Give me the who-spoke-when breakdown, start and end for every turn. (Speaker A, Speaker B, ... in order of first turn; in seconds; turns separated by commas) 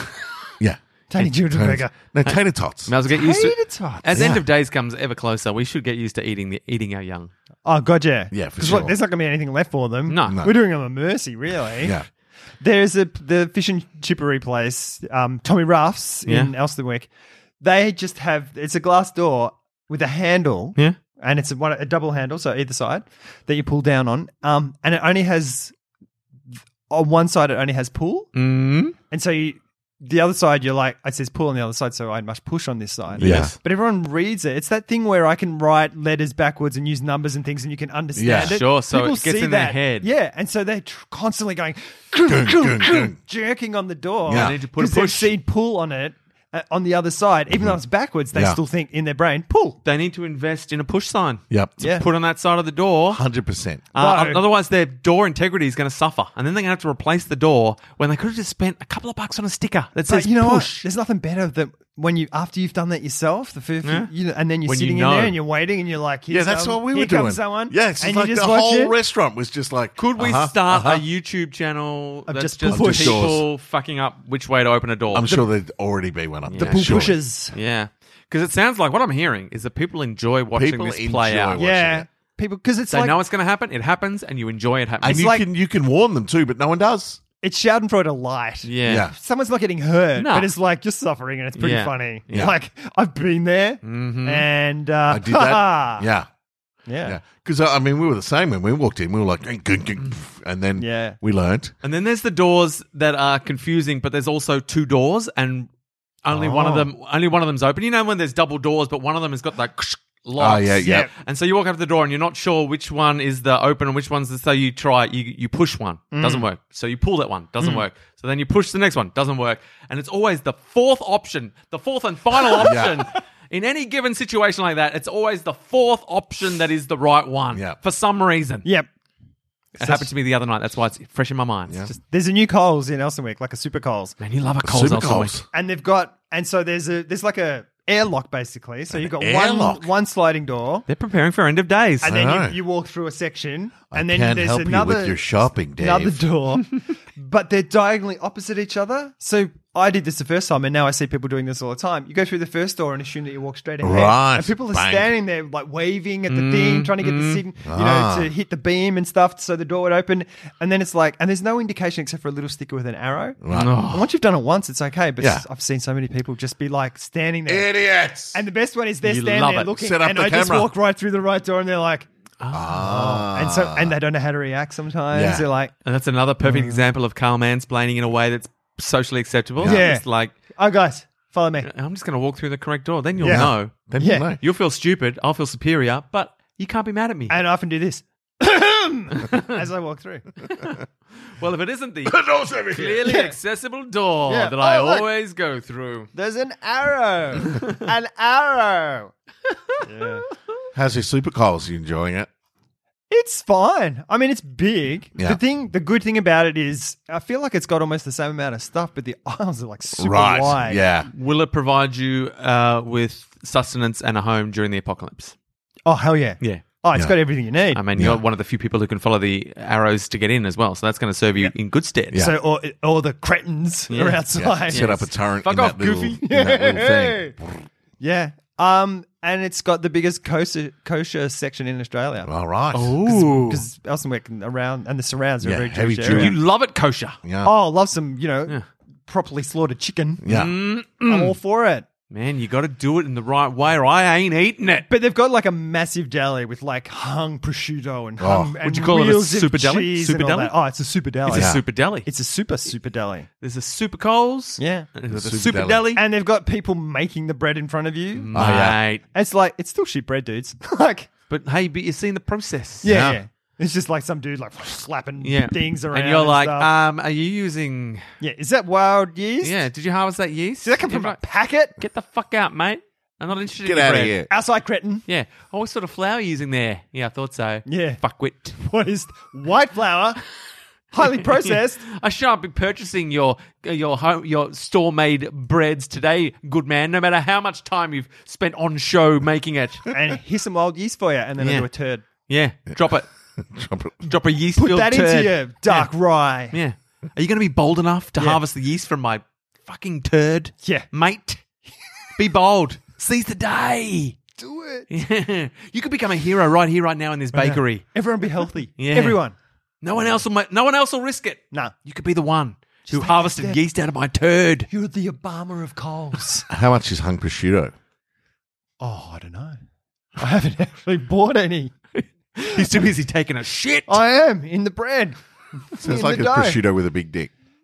Speaker A: 0.6-2.9, Speaker B: 1.1-1.9, Speaker C: 2.2-7.3, Speaker B: 3.1-4.1, Speaker A: 4.1-4.4, Speaker B: 7.7-12.0, Speaker A: 8.3-9.0, Speaker C: 10.1-10.4, Speaker A: 10.3-10.5, Speaker A: 11.8-12.1, Speaker B: 12.6-17.1, Speaker C: 16.3-16.5, Speaker B: 17.6-25.7, Speaker B: 26.9-28.3, Speaker C: 28.4-28.9, Speaker B: 29.1-49.8, Speaker C: 33.2-33.5, Speaker A: 33.2-33.5, Speaker A: 38.2-38.6, Speaker C: 38.3-40.1, Speaker A: 42.2-43.2, Speaker A: 44.3-44.6, Speaker C: 44.3-45.3, Speaker A: 47.5-47.8, Speaker A: 48.3-48.6, Speaker C: 49.8-53.2, Speaker A: 51.5-51.8, Speaker B: 51.8-52.0, Speaker A: 53.1-53.9, Speaker C: 53.9-60.9, Speaker B: 54.0-54.4, Speaker B: 60.1-69.0, Speaker C: 63.8-64.1, Speaker C: 64.7-65.4, Speaker A: 66.3-71.0, Speaker C: 70.0-75.3, Speaker B: 72.3-73.4, Speaker A: 72.7-73.5, Speaker A: 75.1-77.2, Speaker C: 76.5-81.6, Speaker B: 76.6-77.5, Speaker A: 80.6-82.1, Speaker B: 81.6-83.2, Speaker C: 82.9-85.3, Speaker A: 85.0-87.2, Speaker B: 85.0-85.4, Speaker B: 87.4-96.1, Speaker C: 88.6-89.1, Speaker A: 88.9-89.1, Speaker C: 90.2-90.5, Speaker C: 91.5-92.4, Speaker C: 93.8-94.5, Speaker A: 95.1-96.3, Speaker B: 96.9-97.2, Speaker A: 97.0-101.7, Speaker B: 100.8-101.2, Speaker C: 101.8-105.7, Speaker C: 106.2-128.7, Speaker B: 106.3-106.9, Speaker A: 110.4-111.1, Speaker B: 110.8-111.1, Speaker B: 116.1-116.5, Speaker A: 122.6-123.1, Speaker C: 129.8-131.9, Speaker B: 129.8-130.1, Speaker B: 131.9-134.2, Speaker C: 134.2-135.4, Speaker A: 134.6-135.4, Speaker B: 135.5-140.9, Speaker A: 138.9-139.9, Speaker C: 140.9-142.1, Speaker B: 142.0-167.7, Speaker A: 142.0-142.6, Speaker A: 143.9-146.2, Speaker A: 153.8-155.1, Speaker C: 156.3-157.4, Speaker A: 157.7-158.3, Speaker A: 163.4-163.8, Speaker C: 163.5-164.1, Speaker A: 165.2-165.4, Speaker A: 167.5-168.4, Speaker B: 168.3-172.1, Speaker C: 169.0-169.7, Speaker A: 169.7-170.7, Speaker C: 172.4-172.8, Speaker A: 172.5-173.9, Speaker B: 172.7-175.7, Speaker A: 175.1-175.5, Speaker C: 175.8-180.3, Speaker B: 176.4-176.9, Speaker A: 179.6-179.9, Speaker B: 179.6-181.7, Speaker C: 181.6-183.8, Speaker A: 183.2-184.4, Speaker B: 183.2-184.3, Speaker C: 184.4-187.4, Speaker B: 187.3-190.3, Speaker C: 189.1-189.6, Speaker C: 190.4-196.1, Speaker A: 192.1-193.0, Speaker B: 193.0-193.4, Speaker B: 194.3-195.1, Speaker B: 196.1-199.1, Speaker C: 199.5-199.9, Speaker B: 199.8-200.3, Speaker A: 200.7-202.3, Speaker B: 203.1-210.8, Speaker A: 210.0-211.1, Speaker C: 211.1-215.3, Speaker B: 215.9-217.8, Speaker C: 217.7-222.2, Speaker A: 218.0-218.2, Speaker B: 222.1-225.1, Speaker C: 223.9-226.2, Speaker A: 224.3-227.7, Speaker B: 226.2-227.3, Speaker B: 228.0-232.3, Speaker A: 232.2-233.1, Speaker C: 232.7-233.6, Speaker B: 233.1-236.4, Speaker A: 235.4-236.4, Speaker C: 236.1-237.2, Speaker A: 237.2-237.5, Speaker B: 237.4-240.2, Speaker A: 240.2-240.6, Speaker C: 240.3-241.4, Speaker B: 241.0-241.9, Speaker C: 242.1-244.9, Speaker B: 244.9-253.3, Speaker A: 248.2-248.6, Speaker C: 248.6-250.5, Speaker C: 251.3-252.1, Speaker A: 251.3-251.6, Speaker C: 253.4-256.0, Speaker B: 254.6-254.9, Speaker A: 255.1-255.9, Speaker B: 255.9-258.4, Speaker C: 258.1-259.0, Speaker A: 258.3-258.8, Speaker B: 259.1-261.1, Speaker C: 261.3-262.9, Speaker B: 262.8-266.7, Speaker A: 262.9-263.2, Speaker C: 265.2-268.1, Speaker B: 268.2-269.6, Speaker C: 269.4-271.2, Speaker B: 270.6-271.8, Speaker C: 271.8-274.2, Speaker A: 273.6-274.3, Speaker B: 274.3-275.1, Speaker C: 275.1-278.6, Speaker B: 277.7-278.0, Speaker B: 278.6-280.2, Speaker B: 280.9-281.8, Speaker C: 281.1-289.9, Speaker B: 289.9-292.0, Speaker C: 291.4-291.7, Speaker C: 292.3-293.1, Speaker A: 293.4-294.1, Speaker C: 294.0-295.9, Speaker B: 294.6-296.6, Speaker C: 296.5-301.4, Speaker B: 300.6-300.9, Speaker C: 302.2-304.2, Speaker B: 304.4-304.9, Speaker C: 304.9-307.8, Speaker B: 307.3-309.4, Speaker C: 308.8-309.2, Speaker C: 309.8-314.7, Speaker B: 312.9-313.6, Speaker B: 314.7-316.5, Speaker A: 316.5-317.7, Speaker B: 318.8-319.6, Speaker B: 320.2-321.7, Speaker C: 321.9-324.0, Speaker B: 323.9-326.6, Speaker A: 325.8-327.3